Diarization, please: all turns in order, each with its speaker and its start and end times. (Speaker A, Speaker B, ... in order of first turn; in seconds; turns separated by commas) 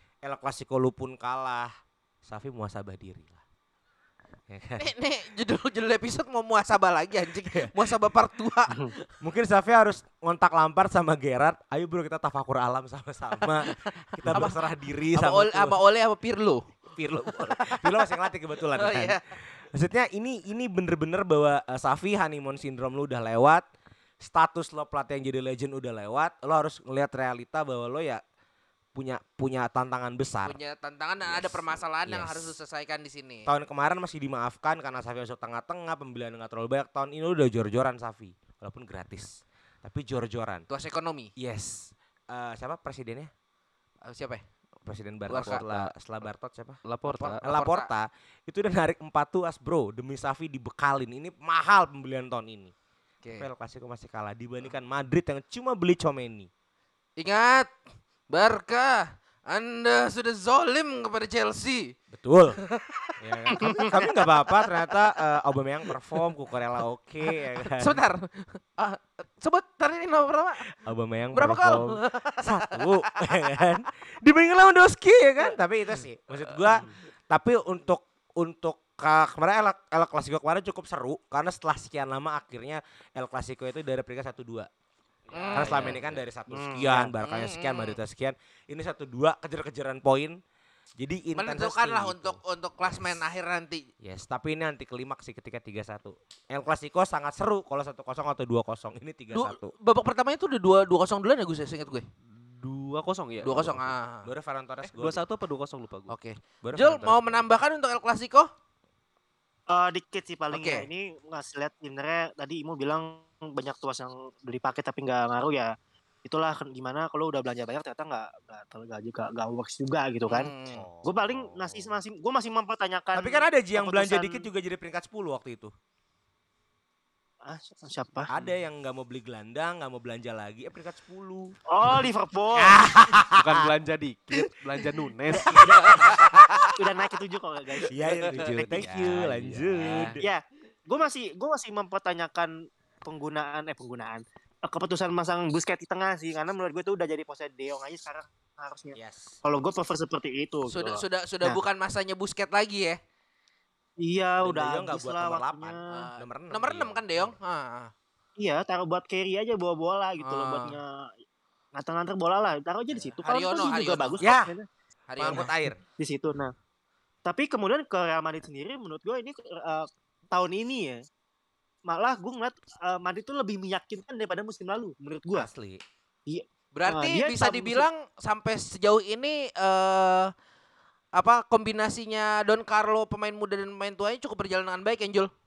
Speaker A: 0.2-1.7, Speaker A: 2.2-3.4, Speaker A: 4.5-4.9, Speaker B: 4.8-9.0, Speaker A: 9.2-15.8, Speaker B: 13.6-16.6, Speaker A: 16.9-23.6, Speaker B: 17.3-18.1, Speaker B: 18.7-19.2, Speaker A: 24.2-28.2, Speaker A: 28.9-30.6, Speaker B: 30.4-33.5, Speaker A: 31.2-32.5, Speaker A: 33.5-40.6, Speaker B: 40.7-41.3, Speaker A: 41.4-43.3, Speaker B: 44.0-44.4, Speaker A: 44.9-52.7, Speaker B: 45.3-45.9, Speaker C: 46.8-47.4, Speaker B: 47.4-47.9, Speaker A: 53.3-56.5, Speaker B: 57.2-57.7, Speaker B: 58.3-61.9, Speaker A: 62.1-62.6, Speaker B: 62.8-64.6, Speaker A: 63.2-68.0, Speaker B: 67.7-70.7, Speaker A: 70.8-84.7, Speaker B: 71.3-73.6, Speaker B: 85.3-86.0, Speaker C: 85.5-86.2, Speaker A: 85.5-90.4, Speaker B: 86.5-88.0, Speaker A: 91.0-93.2, Speaker B: 91.3-93.9, Speaker A: 94.0-99.7, Speaker B: 99.3-102.0, Speaker C: 102.3-103.9, Speaker B: 103.4-104.3, Speaker A: 104.2-105.2, Speaker C: 104.9-106.1, Speaker B: 106.1-108.5, Speaker A: 106.6-107.5, Speaker D: 109.7-115.7, Speaker B: 110.5-110.9, Speaker D: 116.2-120.5, Speaker B: 120.3-120.9, Speaker A: 120.7-122.0, Speaker D: 121.0-124.5, Speaker A: 123.1-125.7, Speaker D: 127.4-128.3, Speaker A: 128.3-132.0, Speaker D: 131.7-132.9, Speaker A: 132.5-133.6, Speaker C: 133.3-135.7, Speaker D: 135.3-135.6, Speaker A: 135.4-136.5, Speaker B: 135.6-136.7, Speaker D: 136.7-138.4, Speaker A: 137.9-140.2, Speaker C: 138.4-140.2, Speaker D: 140.2-151.6, Speaker A: 148.9-149.4, Speaker B: 150.7-153.0, Speaker D: 154.0-156.1, Speaker A: 154.4-157.4, Speaker B: 155.9-157.9, Speaker D: 158.4-161.1, Speaker B: 160.2-160.8, Speaker D: 161.7-164.7, Speaker B: 163.1-164.3, Speaker A: 164.2-164.5, Speaker B: 165.1-165.4, Speaker A: 165.2-165.8, Speaker D: 165.2-166.5, Speaker D: 167.2-171.0, Speaker D: 171.9-175.5, Speaker A: 175.3-175.8, Speaker D: 176.3-177.9, Speaker B: 176.7-180.3, Speaker B: 181.1-185.3